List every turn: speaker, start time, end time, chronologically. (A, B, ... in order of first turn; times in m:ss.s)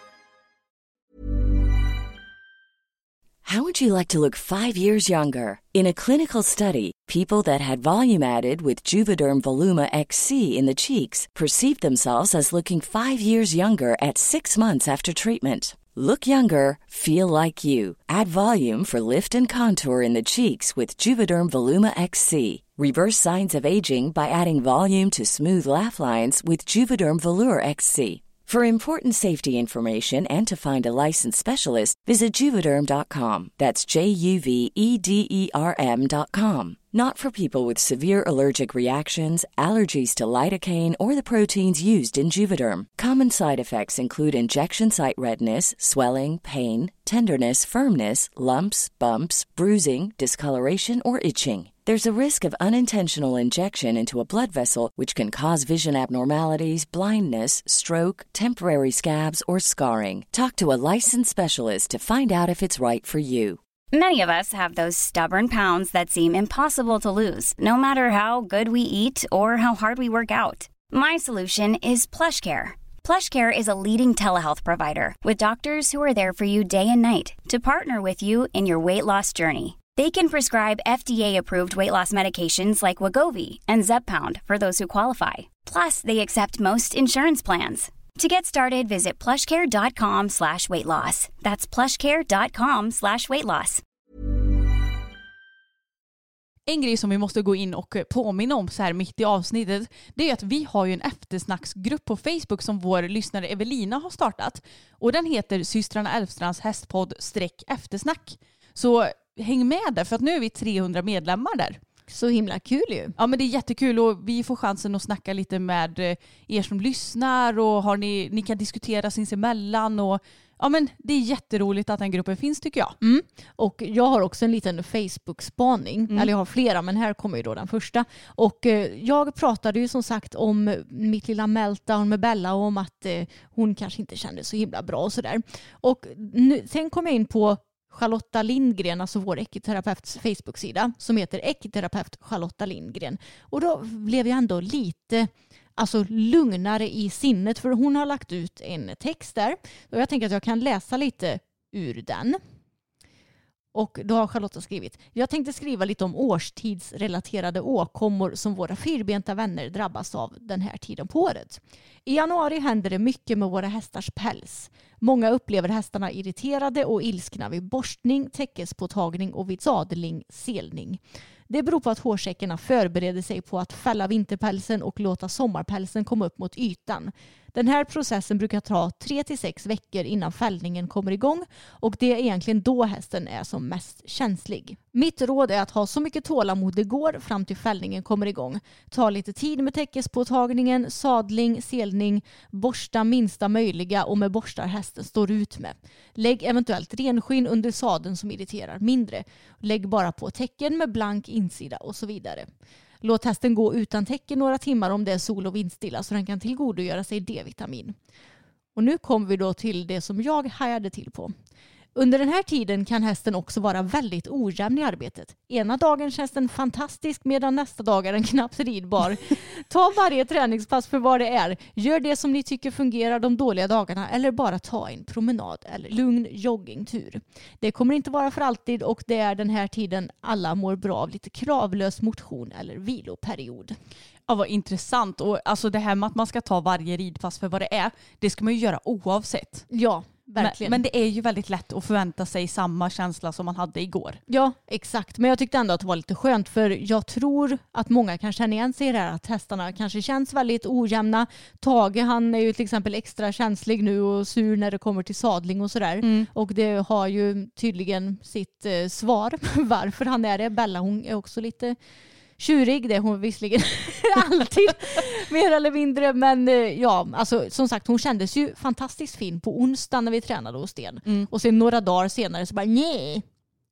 0:03.4-1:03.6 A
1:03.9-1:33.8 B
1:36.7-1:51.8 C
1:52.1-1:53.1 D
1:53.2-2:02.9 C
2:03.0-2:32.4 D
2:33.7-3:22.5 D
3:23.0-3:28.0 D
3:28.8-3:31.3 D
3:31.9-3:53.8 D
3:54.3-3:59.6 C
3:59.7-4:00.8 D
4:00.4-4:04.2 C
4:04.3-4:21.8 D
4:16.0-4:16.3 C
4:22.4-4:33.2 D